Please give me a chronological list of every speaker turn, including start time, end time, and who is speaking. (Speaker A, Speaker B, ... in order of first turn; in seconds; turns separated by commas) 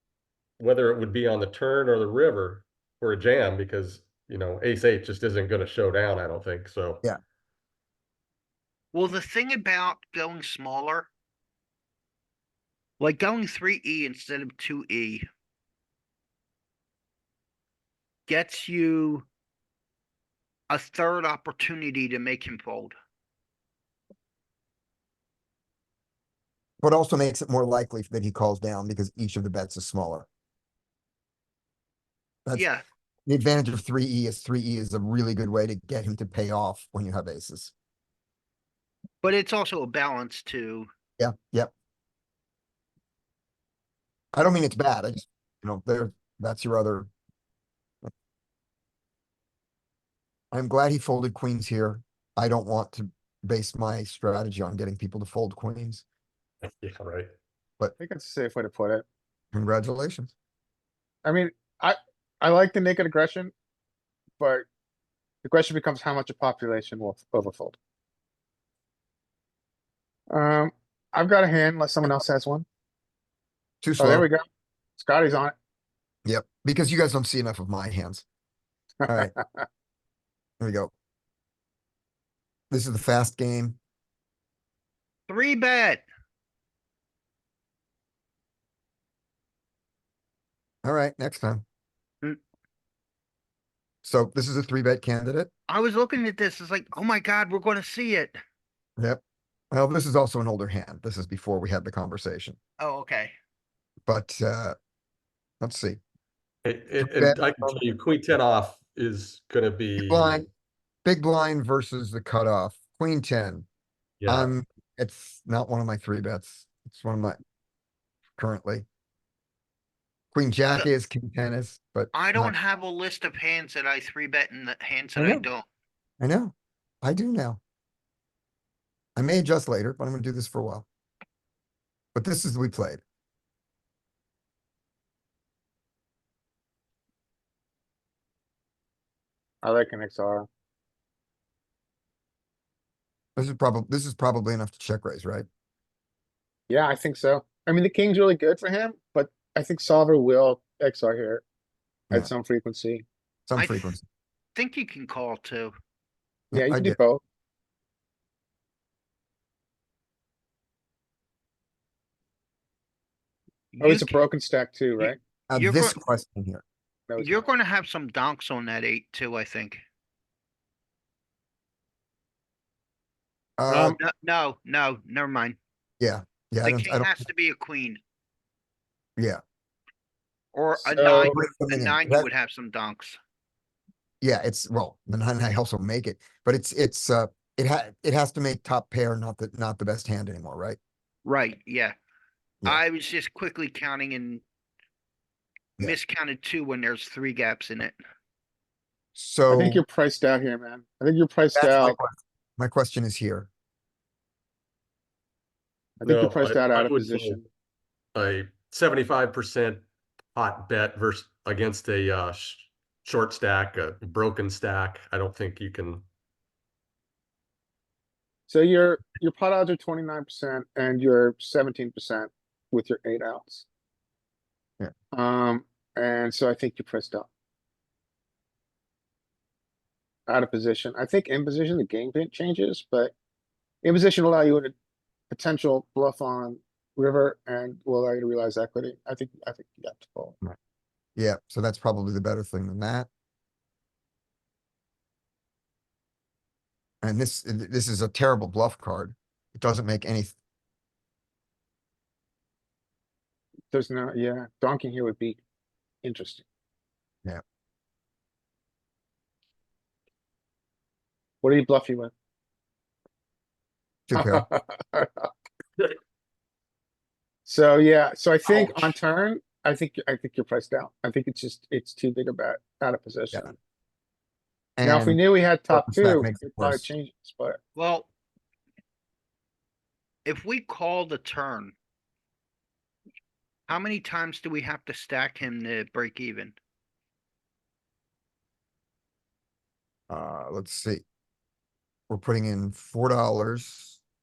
Speaker A: 0.6-7.0, Speaker B: 8.9-11.1, Speaker B: 13.0-15.2, Speaker B: 18.3-19.3, Speaker B: 20.7-23.0, Speaker C: 26.8-30.3, Speaker C: 32.5-32.7, Speaker B: 32.5-32.8, Speaker C: 33.3-37.7, Speaker B: 39.2-40.9, Speaker C: 41.2-41.7, Speaker C: 44.3-47.1, Speaker C: 50.5-56.0, Speaker A: 56.6-57.3, Speaker D: 58.0-59.0, Speaker C: 59.5-60.3, Speaker D: 61.2-63.5, Speaker D: 64.4-64.7, Speaker D: 65.4-67.8, Speaker D: 70.3-72.7, Speaker C: 73.8-74.3, Speaker D: 74.0-74.4, Speaker D: 75.0-75.5, Speaker C: 76.2-78.3, Speaker D: 79.0-79.7, Speaker C: 79.1-79.3, Speaker C: 80.6-80.9, Speaker C: 82.7-83.8, Speaker B: 85.3-86.0, Speaker C: 90.8-91.6, Speaker C: 94.0-95.5, Speaker B: 95.7-98.4, Speaker C: 99.0-102.6, Speaker B: 102.8-103.3, Speaker C: 104.1-104.8, Speaker C: 105.6-106.0, Speaker A: 106.7-110.5, Speaker C: 107.0-107.8, Speaker C: 110.0-110.5, Speaker C: 111.0-113.7, Speaker A: 114.2-114.5, Speaker C: 114.3-117.4, Speaker C: 118.4-118.9, Speaker C: 120.3-122.5, Speaker B: 122.1-125.7, Speaker C: 125.2-125.5, Speaker C: 126.2-127.6, Speaker C: 129.2-130.9, Speaker C: 132.1-133.0, Speaker D: 139.6-140.5, Speaker C: 143.4-145.5, Speaker D: 146.7-151.4, Speaker D: 152.1-153.1, Speaker C: 153.5-154.0, Speaker B: 153.6-154.0, Speaker B: 154.6-155.7, Speaker C: 156.5-157.0, Speaker D: 156.5-157.2, Speaker B: 163.7-164.2, Speaker D: 163.8-165.2, Speaker B: 165.0-166.0, Speaker C: 165.5-166.6, Speaker D: 167.1-167.5, Speaker B: 167.2-169.8, Speaker C: 173.6-174.0, Speaker D: 173.7-174.0, Speaker B: 174.0-175.6, Speaker C: 176.0-177.2, Speaker B: 176.6-178.0, Speaker B: 180.5-183.2, Speaker C: 180.9-182.3, Speaker D: 180.9-181.3, Speaker C: 184.2-190.8, Speaker B: 191.2-192.0, Speaker B: 192.7-194.4, Speaker B: 195.8-198.0, Speaker C: 199.2-199.8, Speaker D: 199.5-202.0, Speaker C: 201.5-203.5, Speaker D: 206.0-207.4, Speaker A: 206.0-207.4, Speaker A: 208.2-209.8, Speaker A: 210.3-216.0, Speaker D: 218.5-223.7, Speaker D: 225.1-227.3, Speaker D: 230.3-233.1, Speaker D: 233.8-234.7, Speaker D: 235.3-240.3, Speaker C: 241.2-243.1, Speaker C: 247.0-250.3, Speaker D: 253.7-255.4, Speaker D: 256.0-256.4, Speaker D: 261.4-262.1, Speaker C: 264.1-264.4, Speaker D: 264.1-265.3, Speaker D: 267.5-273.6, Speaker C: 268.5-268.9, Speaker C: 274.8-276.9, Speaker D: 274.8-277.6, Speaker B: 277.8-278.1, Speaker B: 280.2-281.8, Speaker B: 283.7-286.6, Speaker C: 290.1-291.0, Speaker C: 292.1-294.0